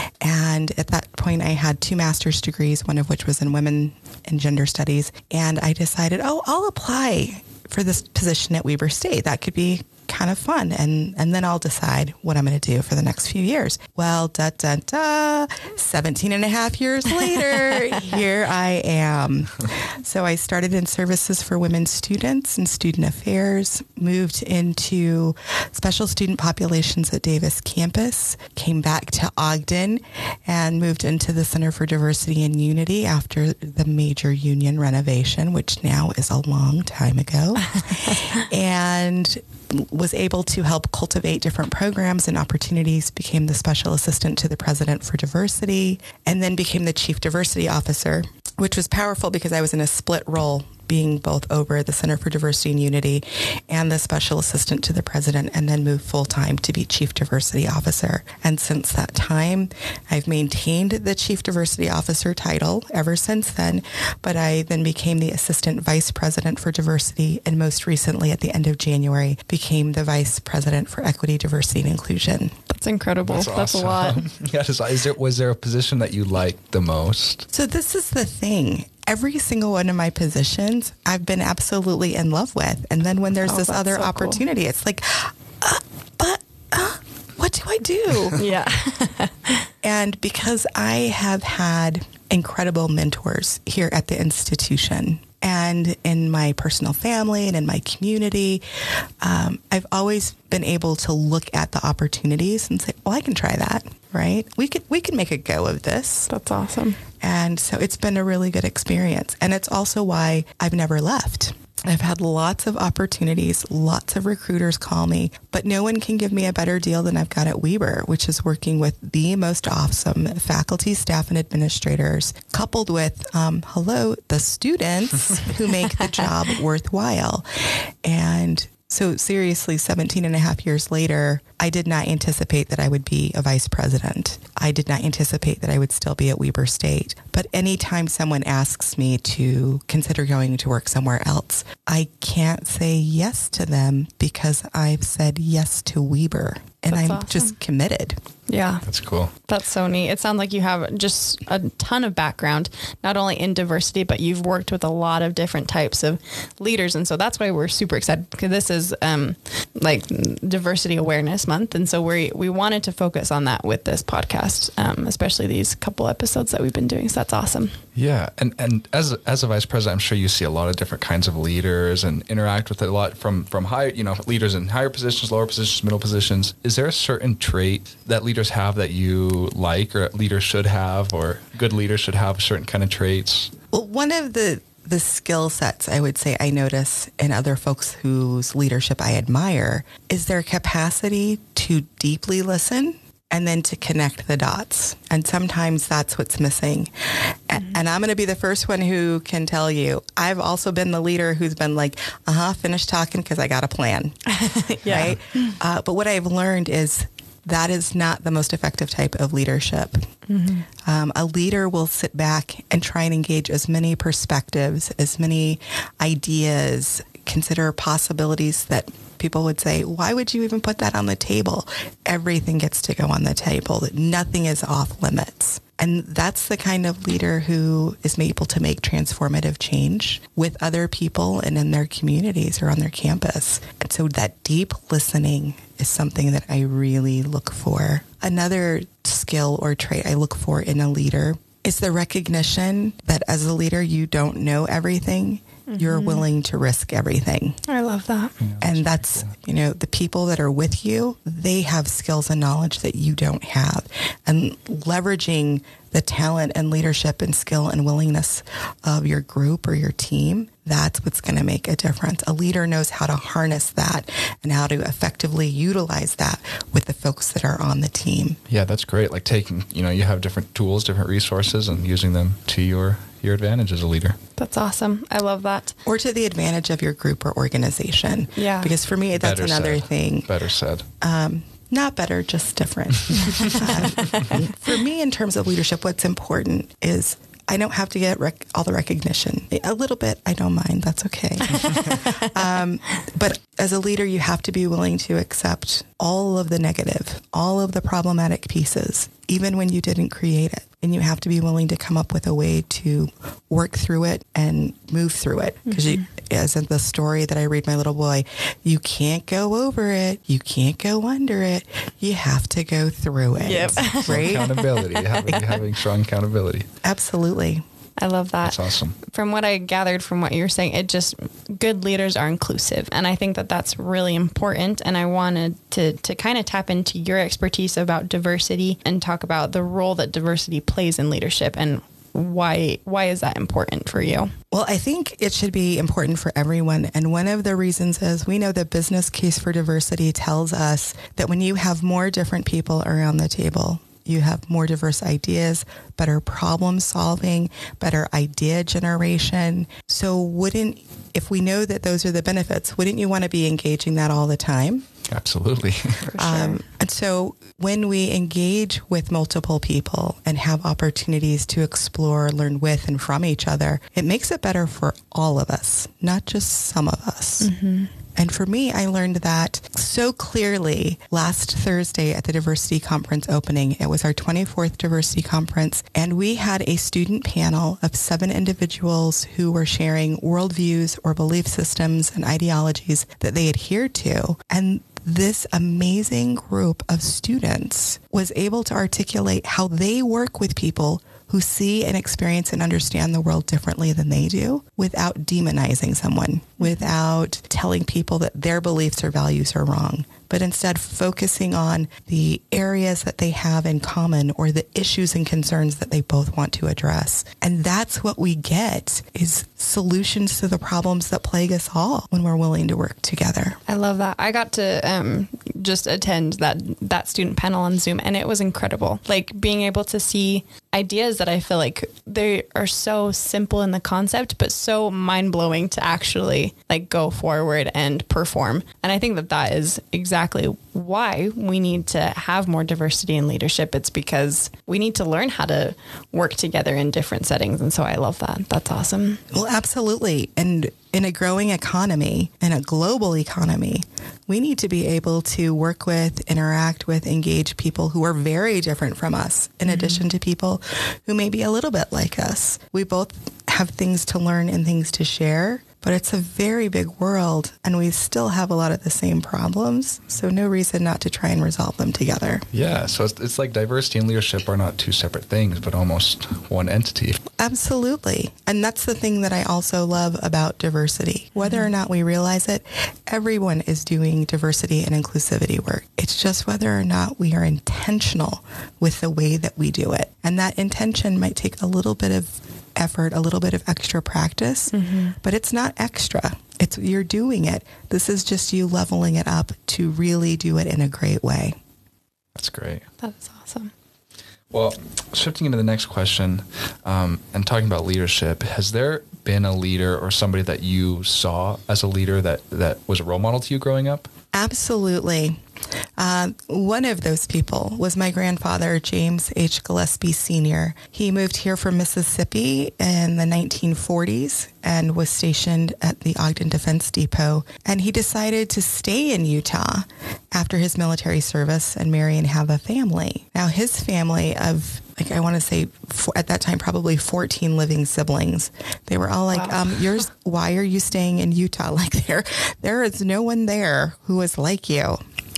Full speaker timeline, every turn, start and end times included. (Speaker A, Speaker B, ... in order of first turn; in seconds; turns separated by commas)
Speaker A: 0.2-72.5, Speaker B: 72.7-74.2, Speaker C: 73.3-77.5, Speaker A: 77.5-88.4, Speaker B: 83.4-84.4, Speaker B: 88.4-89.7, Speaker A: 89.8-98.6, Speaker A: 99.2-106.3, Speaker B: 106.3-107.0, Speaker A: 107.2-127.5, Speaker A: 128.0-148.2, Speaker B: 146.9-147.6, Speaker B: 148.5-148.8, Speaker C: 148.8-149.3, Speaker B: 149.5-167.8, Speaker C: 168.0-183.5, Speaker A: 183.7-196.9, Speaker A: 197.5-204.2, Speaker B: 204.3-205.2, Speaker A: 204.8-210.1, Speaker B: 210.3-210.7, Speaker A: 210.8-247.6, Speaker B: 245.7-246.3, Speaker B: 247.7-248.3, Speaker C: 248.4-249.3, Speaker A: 248.6-268.4, Speaker C: 268.5-274.2, Speaker B: 274.4-275.8, Speaker A: 275.9-280.3, Speaker B: 278.4-278.7, Speaker C: 279.1-280.9, Speaker A: 281.0-314.6, Speaker B: 291.6-292.2, Speaker B: 313.4-315.6, Speaker C: 313.8-316.7, Speaker A: 316.8-317.6, Speaker B: 318.0-334.3, Speaker C: 318.4-319.0, Speaker A: 334.5-354.9, Speaker C: 355.1-356.1, Speaker B: 356.1-356.6, Speaker A: 356.2-367.5, Speaker B: 367.4-367.9, Speaker A: 368.2-413.6, Speaker B: 396.6-396.9, Speaker B: 413.7-439.2, Speaker A: 439.3-462.5, Speaker B: 449.7-450.0, Speaker C: 462.5-467.2, Speaker A: 467.4-491.6, Speaker B: 471.4-471.7, Speaker B: 484.7-485.2, Speaker C: 492.4-492.9, Speaker B: 493.0-493.7, Speaker C: 494.5-504.1, Speaker A: 504.3-505.4, Speaker A: 506.0-535.0, Speaker B: 529.3-529.8